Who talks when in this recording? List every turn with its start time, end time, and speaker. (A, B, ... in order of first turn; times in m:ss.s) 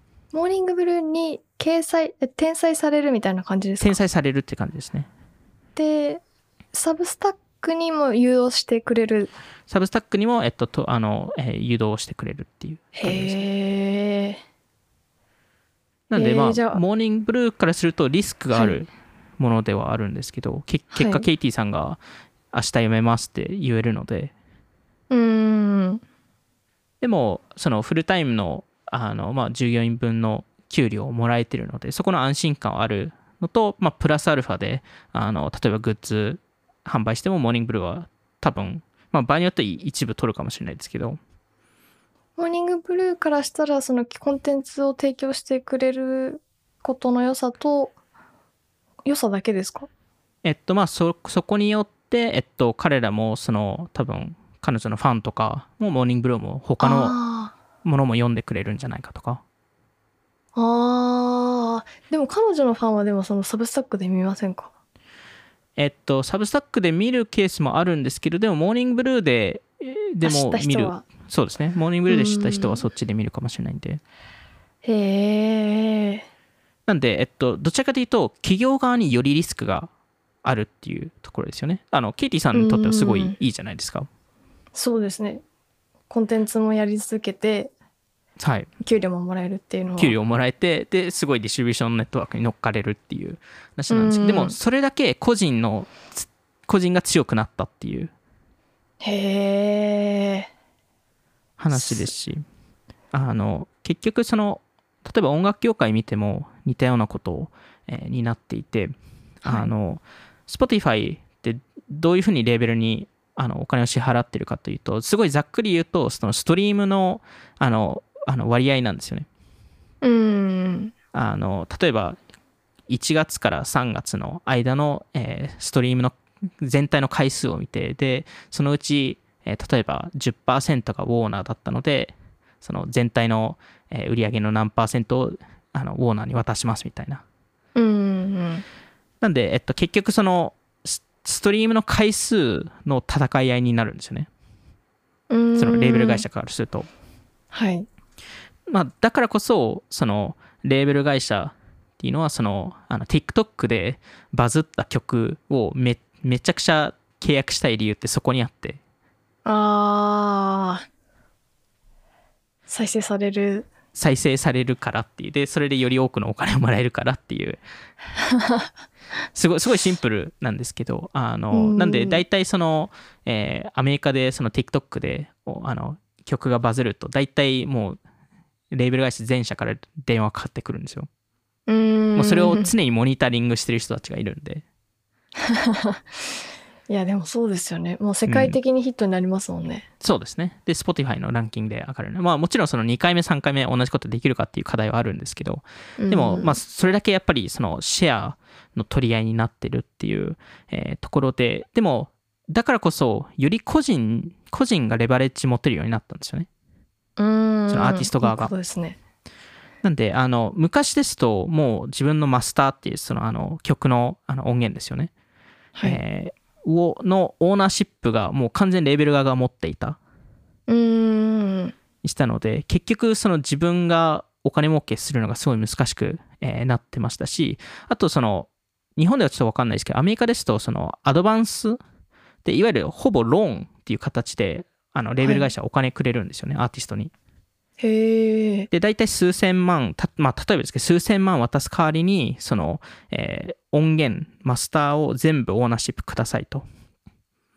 0:00.3-0:04.0 A
0:03.8-0:05.1 B
0:05.8-0:06.2 A
0:06.7-0:09.3 A
0:09.7-0:13.4 B
0:13.0-0:14.4 A
0:16.1-0:22.0 B
0:16.2-0:16.8 A
0:18.5-0:18.8 A
0:20.9-0:21.3 A
0:22.5-0:24.3 B
0:25.1-0:26.0 A
0:27.0-0:41.2 B
0:42.4-0:47.9 A
0:49.1-0:49.9 A
0:50.4-0:57.2 B
0:56.8-0:57.6 A
0:57.8-0:59.4 B
1:00.6-1:04.7 A
1:05.8-1:14.0 B
1:10.2-1:11.0 A
1:12.1-1:12.8 A
1:14.8-1:16.3 A
1:16.9-1:19.9 B
1:20.4-1:24.1 B
1:22.5-1:23.4 A
1:24.7-1:25.4 A
1:26.1-1:27.7 A
1:28.4-1:28.7 B
1:28.8-1:30.2 A
1:30.0-1:38.1 B
1:33.9-1:34.6 A
1:39.0-1:40.5 A
1:41.6-1:42.4 B
1:41.7-1:42.1 A
1:43.1-1:48.9 B
1:49.4-1:59.3 B
2:00.0-2:00.9 A
2:01.1-2:02.2 B
2:02.9-2:17.2 B
2:17.8-2:18.6 A
2:19.2-2:24.3 B
2:25.3-2:26.2 A
2:25.6-2:26.9 B
2:27.5-2:27.9 A
2:28.7-2:38.8 B
2:39.4-2:40.8 A
2:42.7-2:43.7 A
2:44.0-2:47.6 B
2:48.2-2:48.7 A
2:49.4-2:58.0 B
2:51.5-2:52.2 A
2:58.7-3:01.1 B
3:01.7-3:02.7 A
3:02.2-3:04.6 B
3:05.4-3:06.0 A
3:06.9-3:09.9 A
3:08.3-3:08.6 B
3:10.0-3:26.5 B
3:16.0-3:16.6 A
3:27.2-3:29.0 A
3:27.7-3:28.5 B
3:29.8-3:35.1 B
3:35.8-3:36.0 A
3:35.8-3:40.0 B
3:40.7-3:41.8 A
3:42.0-3:51.8 B
3:52.4-3:57.1 B
3:55.2-3:55.5 A
3:57.8-3:58.7 A
3:58.7-4:06.6 B